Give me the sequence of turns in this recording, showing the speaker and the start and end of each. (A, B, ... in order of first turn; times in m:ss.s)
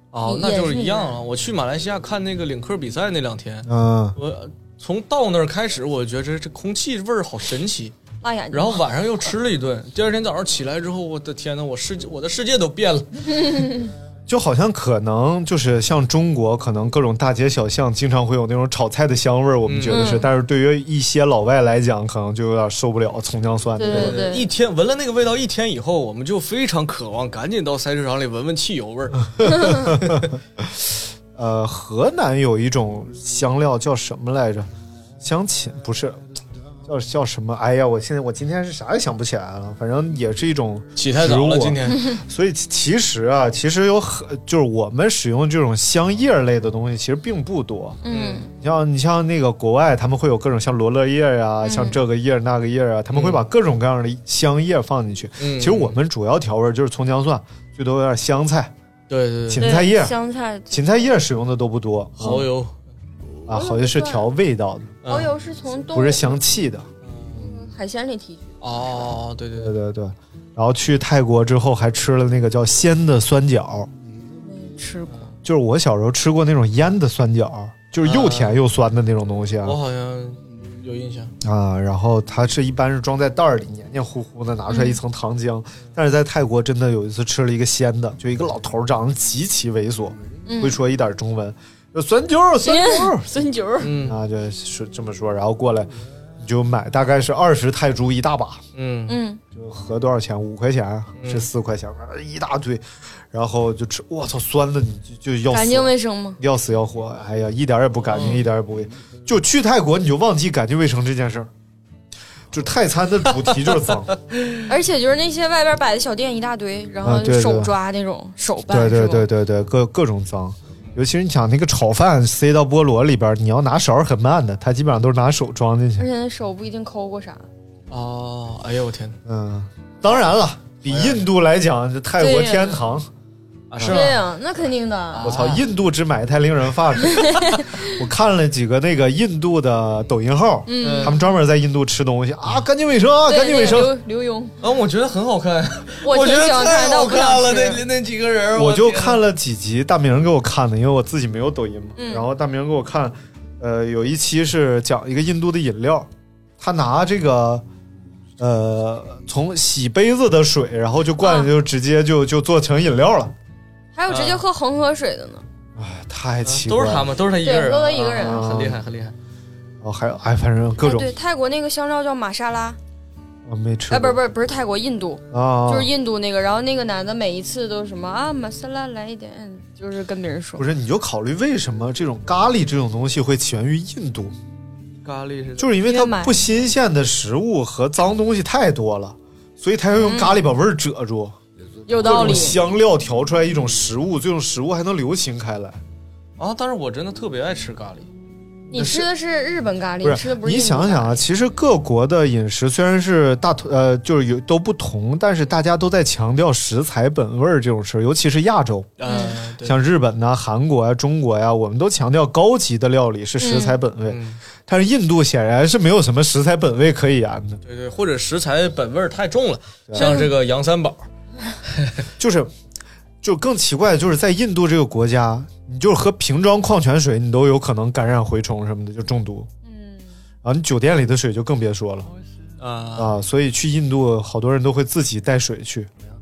0:00.1-0:08.0 A
0:00.2-0:01.2 B
0:03.6-0:04.2 C
0:08.2-0:08.8 B
0:08.5-0:13.6 A
0:13.4-0:13.9 B
0:14.3-0:24.2 C
0:19.6-0:20.2 A
0:19.9-0:20.3 B
0:23.8-0:24.4 B
0:23.9-0:30.3 A
0:29.4-0:34.7 C
0:29.4-0:29.9 B
0:35.2-0:36.2 C
0:36.8-0:48.0 C
0:41.0-0:42.1 A
0:48.0-0:48.5 B
0:48.1-0:48.4 A
0:48.6-0:58.7 C
0:51.6-0:52.0 B
0:53.1-0:53.4 A
0:55.4-0:56.0 A
0:59.1-0:59.7 A
0:59.5-1:00.1 C
0:59.6-1:01.0 B
1:00.7-1:02.4 C
1:02.2-1:02.8 A
1:03.5-1:05.0 C
1:03.5-1:04.3 B
1:05.0-1:05.3 A
1:05.0-1:06.2 B
1:05.9-1:07.5 C
1:07.0-1:07.4 A
1:07.4-1:09.0 B
1:08.6-1:09.7 A
1:09.6-1:13.9 C
1:14.4-1:15.2 B
1:15.4-1:19.8 C
1:18.0-1:18.6 A
1:19.6-1:21.3 A
1:21.4-1:33.3 C
1:24.7-1:25.0 B
1:30.4-1:30.8 B
1:32.6-1:33.9 B
1:33.8-1:34.2 A
1:34.0-1:38.6 C
1:38.7-1:39.2 A
1:39.1-1:39.4 B
1:39.5-1:51.5 C
1:41.2-1:41.5 A
1:45.5-1:46.4 B
1:48.1-1:48.4 A
1:52.5-1:54.2 C
1:54.6-1:59.3 B
1:57.0-1:57.7 C
1:58.7-2:06.1 C
2:06.0-2:07.4 B
2:07.9-2:09.2 A
2:09.2-2:13.1 C
2:10.8-2:11.2 A
2:12.2-2:12.8 B
2:13.7-2:14.2 A
2:13.8-2:14.0 C
2:13.8-2:15.5 B
2:15.1-2:15.6 A
2:15.2-2:23.9 C
2:17.0-2:18.0 B
2:20.7-2:21.2 B
2:20.8-2:21.2 A
2:23.3-2:24.5 B
2:24.6-2:29.2 A
2:26.0-2:27.8 B
2:28.5-2:37.6 C
2:32.0-2:32.3 B
2:38.4-2:43.3 C
2:41.2-2:41.5 B
2:43.9-2:45.4 B
2:44.1-2:44.4 A
2:45.8-2:47.1 C
2:46.4-2:49.2 A
2:47.4-2:48.4 B
2:48.1-2:48.8 C
2:49.8-2:51.1 C
2:50.8-2:52.8 B
2:53.4-2:54.2 C
2:53.9-3:00.7 B
2:55.3-2:55.9 C
3:00.6-3:04.3 C
3:05.0-3:05.7 A
3:05.6-3:11.4 C
3:05.8-3:06.4 B
3:10.0-3:10.4 B
3:11.9-3:12.6 B
3:12.0-3:15.8 C
3:12.1-3:12.4 A
3:16.4-3:18.1 A
3:18.7-3:21.2 B
3:18.7-3:19.1 C
3:20.0-3:37.6 C
3:29.0-3:29.8 A
3:29.1-3:29.3 B
3:33.4-3:33.8 B
3:34.1-3:34.4 A
3:37.6-3:41.1 A
3:39.9-3:40.2 C
3:40.0-3:40.3 B
3:41.7-3:42.0 A
3:42.2-3:42.5 C
3:43.2-3:49.5 C
3:49.6-3:50.1 B
3:50.4-3:52.1 C
3:52.6-3:53.2 A
3:53.0-3:55.9 C